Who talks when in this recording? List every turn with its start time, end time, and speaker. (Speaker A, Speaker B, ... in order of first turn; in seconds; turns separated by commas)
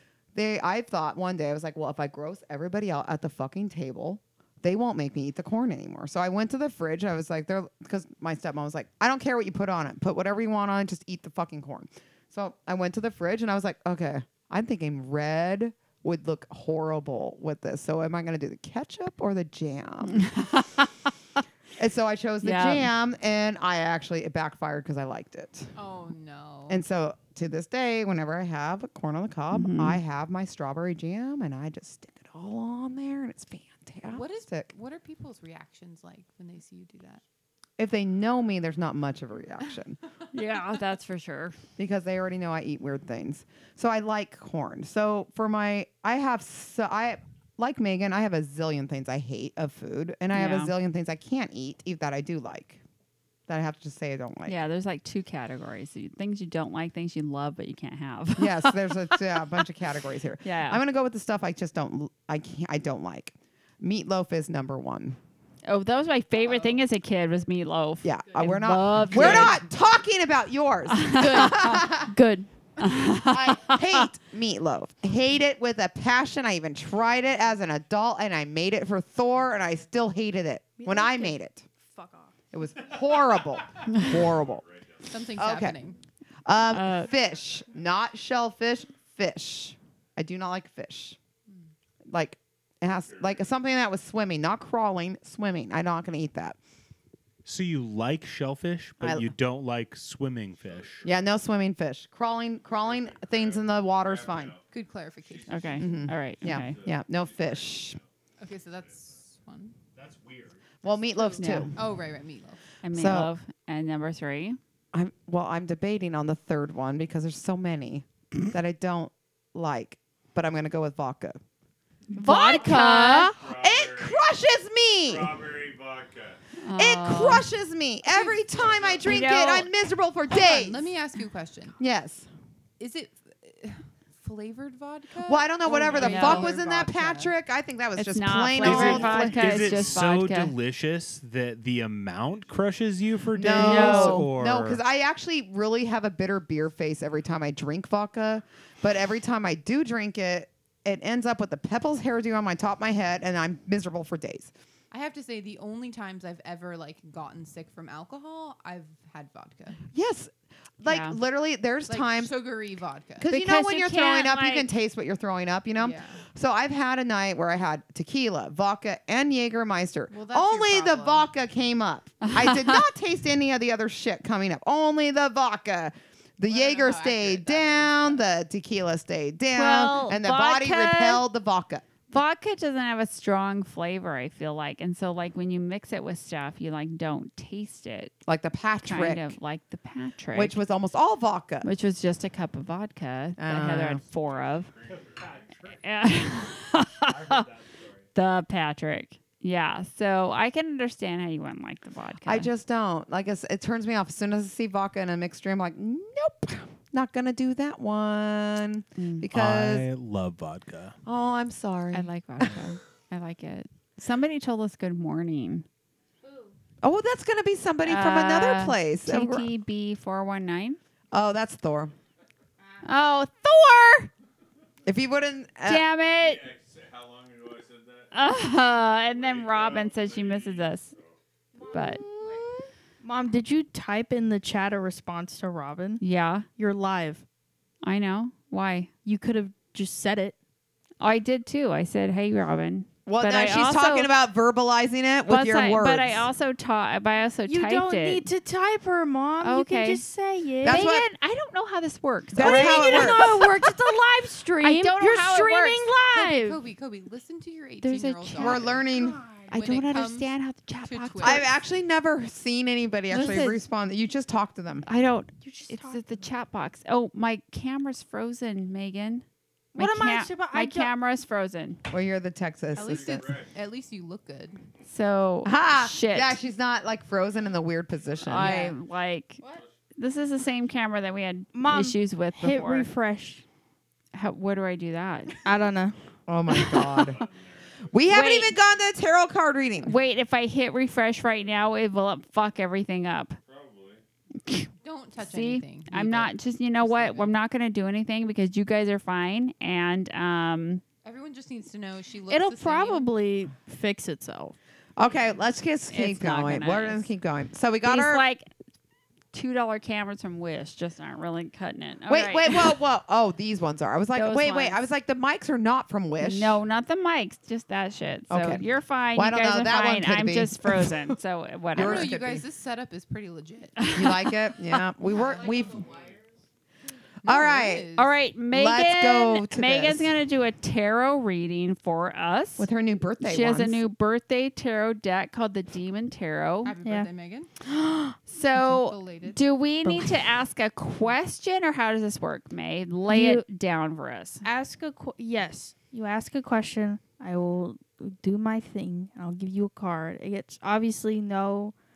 Speaker A: 0.3-20.4, Speaker B: 20.1-20.9, Speaker A: 21.8-25.7, Speaker B: 22.4-22.9, Speaker C: 25.8-26.8, Speaker A: 26.7-34.7, Speaker B: 29.5-30.0, Speaker C: 34.1-37.2, Speaker A: 37.8-40.0, Speaker B: 40.3-41.6, Speaker A: 41.8-52.8, Speaker B: 50.3-50.7, Speaker A: 53.5-54.6, Speaker B: 54.5-59.1, Speaker A: 58.4-65.2, Speaker B: 60.4-60.8, Speaker B: 65.7-69.6, Speaker A: 68.0-72.1, Speaker B: 70.9-71.6, Speaker D: 71.1-72.5, Speaker B: 72.8-74.1, Speaker A: 73.2-81.7, Speaker D: 80.8-82.3, Speaker A: 82.5-84.6, Speaker E: 82.9-85.3, Speaker C: 85.1-86.0, Speaker A: 85.4-85.8, Speaker A: 86.5-91.2, Speaker B: 86.7-87.1, Speaker A: 92.1-96.6, Speaker E: 92.9-93.5, Speaker F: 97.5-101.0, Speaker A: 99.0-99.3, Speaker E: 100.6-101.4, Speaker A: 101.0-104.5, Speaker E: 102.7-109.3, Speaker C: 104.7-105.9, Speaker B: 105.5-106.8, Speaker A: 105.8-108.0, Speaker C: 108.4-109.8, Speaker F: 110.0-110.7, Speaker A: 110.8-111.8, Speaker B: 111.4-111.7, Speaker C: 111.7-112.6, Speaker B: 112.8-114.6, Speaker A: 112.9-113.3, Speaker A: 114.9-121.4, Speaker B: 122.1-123.3, Speaker D: 122.2-123.3, Speaker A: 122.3-125.3, Speaker E: 123.3-124.3, Speaker E: 125.0-126.4, Speaker B: 126.6-127.5, Speaker A: 126.8-130.9, Speaker C: 128.1-129.0, Speaker E: 128.6-129.1, Speaker B: 129.0-129.7, Speaker C: 130.3-131.8, Speaker A: 131.8-132.3, Speaker C: 132.8-137.3, Speaker A: 135.2-139.7, Speaker B: 136.0-136.5, Speaker B: 138.0-140.5, Speaker F: 138.6-144.8, Speaker E: 139.1-140.1, Speaker A: 143.3-154.5, Speaker B: 143.6-144.2, Speaker C: 154.9-159.8, Speaker A: 159.9-162.3, Speaker B: 160.9-161.2, Speaker C: 161.9-163.3, Speaker A: 163.2-181.9, Speaker B: 163.3-164.7, Speaker C: 165.8-166.2, Speaker C: 170.1-171.3, Speaker B: 172.2-172.8, Speaker C: 176.5-178.2, Speaker B: 179.5-181.2, Speaker B: 182.1-188.1, Speaker A: 188.3-189.4, Speaker B: 188.8-190.6, Speaker A: 190.3-191.7, Speaker B: 191.6-194.7, Speaker A: 193.4-194.0, Speaker E: 194.1-195.8, Speaker F: 194.9-195.8, Speaker B: 195.8-197.5, Speaker F: 197.0-198.1, Speaker B: 198.2-202.5, Speaker A: 202.2-209.9, Speaker B: 209.0-209.3, Speaker F: 209.3-211.0, Speaker A: 211.1-212.6, Speaker B: 211.9-215.7, Speaker D: 216.2-216.5, Speaker A: 216.8-219.5, Speaker B: 217.8-220.8, Speaker A: 221.1-221.9, Speaker B: 222.8-224.1, Speaker A: 224.9-225.9, Speaker B: 225.7-226.4, Speaker E: 226.2-231.2, Speaker B: 228.1-230.9, Speaker D: 231.6-232.5, Speaker B: 231.7-232.0, Speaker A: 232.2-232.5, Speaker D: 233.0-236.0, Speaker B: 236.0-236.5, Speaker D: 236.6-237.2, Speaker B: 237.8-238.9, Speaker D: 239.1-240.4, Speaker B: 241.0-244.1, Speaker A: 243.1-246.3, Speaker B: 245.3-248.2, Speaker D: 247.5-250.8, Speaker B: 249.4-250.0, Speaker A: 250.6-251.1, Speaker B: 250.6-253.7, Speaker A: 252.3-253.4, Speaker D: 252.4-256.6, Speaker B: 254.6-255.9, Speaker C: 256.1-258.9, Speaker B: 257.8-258.7, Speaker A: 258.4-259.2, Speaker D: 258.9-259.5, Speaker B: 259.5-261.5, Speaker C: 259.5-260.3, Speaker C: 260.8-261.5, Speaker A: 261.2-264.9, Speaker B: 263.1-263.6, Speaker B: 264.9-271.8, Speaker D: 265.4-266.3, Speaker D: 269.7-270.9, Speaker A: 271.9-273.3, Speaker C: 272.8-274.6, Speaker E: 272.8-273.6, Speaker B: 274.9-276.4, Speaker A: 275.4-278.7, Speaker B: 278.2-279.4, Speaker D: 278.4-278.7, Speaker E: 279.4-279.8, Speaker B: 280.0-282.9, Speaker D: 281.5-283.4, Speaker B: 284.1-285.4, Speaker D: 285.4-285.9, Speaker A: 286.3-287.2, Speaker D: 286.5-287.0, Speaker E: 286.8-288.8, Speaker A: 287.9-289.9, Speaker B: 288.1-288.6, Speaker B: 289.8-293.4, Speaker E: 293.4-294.0, Speaker C: 294.8-297.4, Speaker B: 295.2-300.8, Speaker C: 301.0-303.1, Speaker D: 302.3-304.6, Speaker A: 305.0-308.2, Speaker B: 305.9-307.1, Speaker B: 307.8-308.5, Speaker B: 309.3-312.8, Speaker A: 312.1-316.6, Speaker B: 314.1-314.8, Speaker B: 316.2-322.1, Speaker A: 318.3-321.2, Speaker A: 321.7-322.4, Speaker C: 321.8-323.9, Speaker B: 323.8-324.5, Speaker A: 323.9-325.9, Speaker E: 325.1-326.3, Speaker C: 327.2-328.1, Speaker A: 327.2-327.9, Speaker B: 328.0-332.7, Speaker A: 328.5-330.2, Speaker A: 332.6-333.8, Speaker B: 333.2-336.8, Speaker C: 336.6-337.5, Speaker D: 336.8-337.1, Speaker B: 338.1-344.4, Speaker C: 338.6-339.4, Speaker D: 343.1-343.4, Speaker D: 344.4-351.8